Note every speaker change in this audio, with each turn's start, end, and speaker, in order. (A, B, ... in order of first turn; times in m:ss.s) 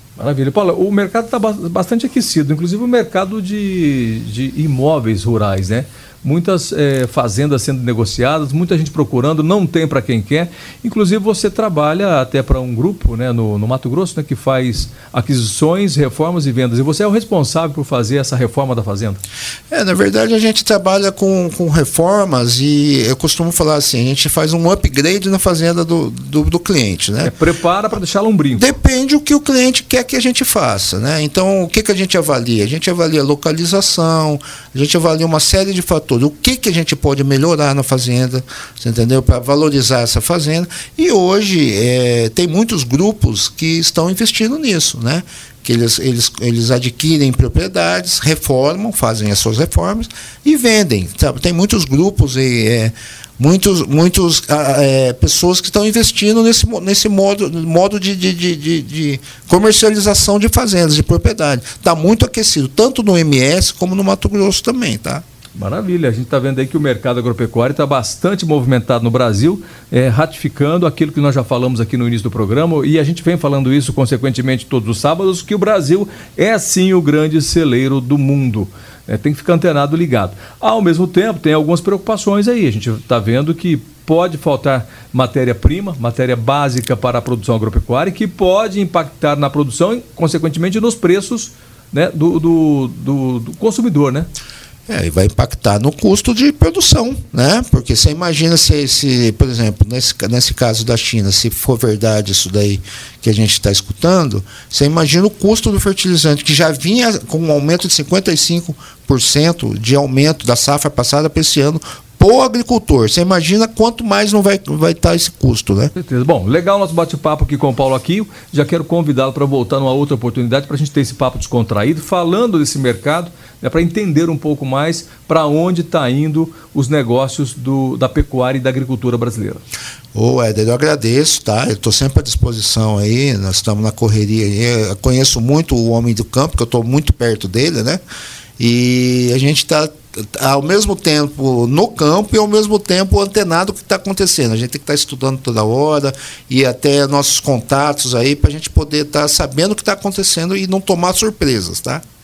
0:00.2-0:19.2 A
0:19.7-0:27.3 B
0:27.2-0:28.6 A
0:28.5-1:05.2 B
1:05.6-1:34.3 A
1:34.9-1:55.9 B
1:55.9-2:09.6 A
2:10.1-2:18.0 B
2:18.6-2:32.0 B